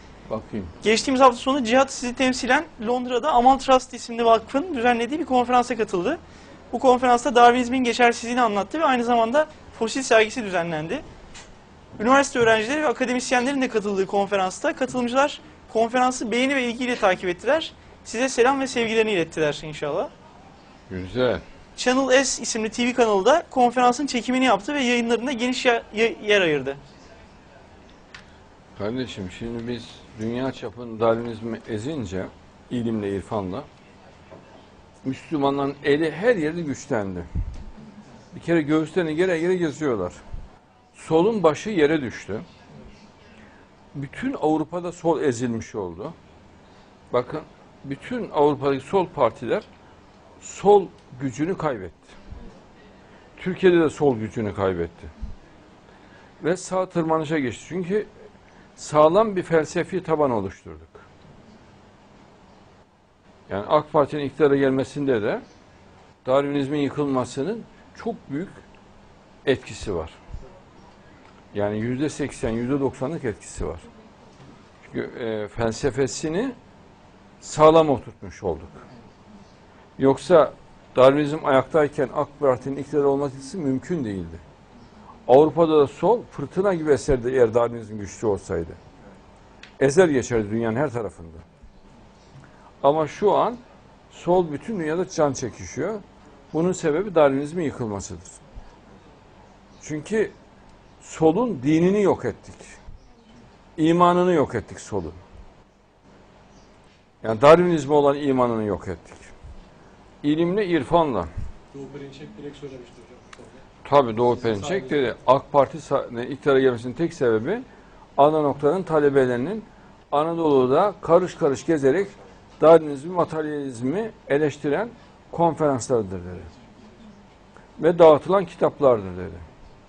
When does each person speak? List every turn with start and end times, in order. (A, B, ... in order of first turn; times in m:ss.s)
0:00.3-0:00.7 A
0:00.8-0:06.2 B
0:06.7-0:11.0 B
0:12.0-0:20.1 B
0:20.9-0:21.4 A
0:21.8-0:26.8 B
0:28.8-0:33.7 A
0:35.0-0:37.3 A
0:38.3-0:40.2 A
0:41.0-0:42.4 A
0:43.9-0:46.1 A
0:47.1-0:49.6 A
0:50.4-0:52.1 A
0:53.4-0:55.1 A
0:56.4-0:58.1 A
0:58.8-1:01.0 A
1:03.5-1:05.4 A
1:06.2-1:08.6 A
1:09.4-1:10.1 A
1:11.5-1:13.8 A
1:14.8-1:16.5 A
1:17.4-1:18.8 A
1:20.0-1:24.4 A
1:25.3-1:28.8 A
1:29.8-1:31.4 A
1:32.8-1:33.6 A
1:34.1-1:36.0 A
1:36.5-1:38.4 A
1:39.8-1:40.3 A
1:41.0-1:42.7 A
1:43.8-1:45.2 A
1:47.2-1:49.3 A
1:50.2-1:51.3 A
1:51.7-1:53.6 C
1:53.8-1:57.6 A
1:54.5-1:54.8 C
1:58.2-2:06.5 A
2:07.8-2:09.4 A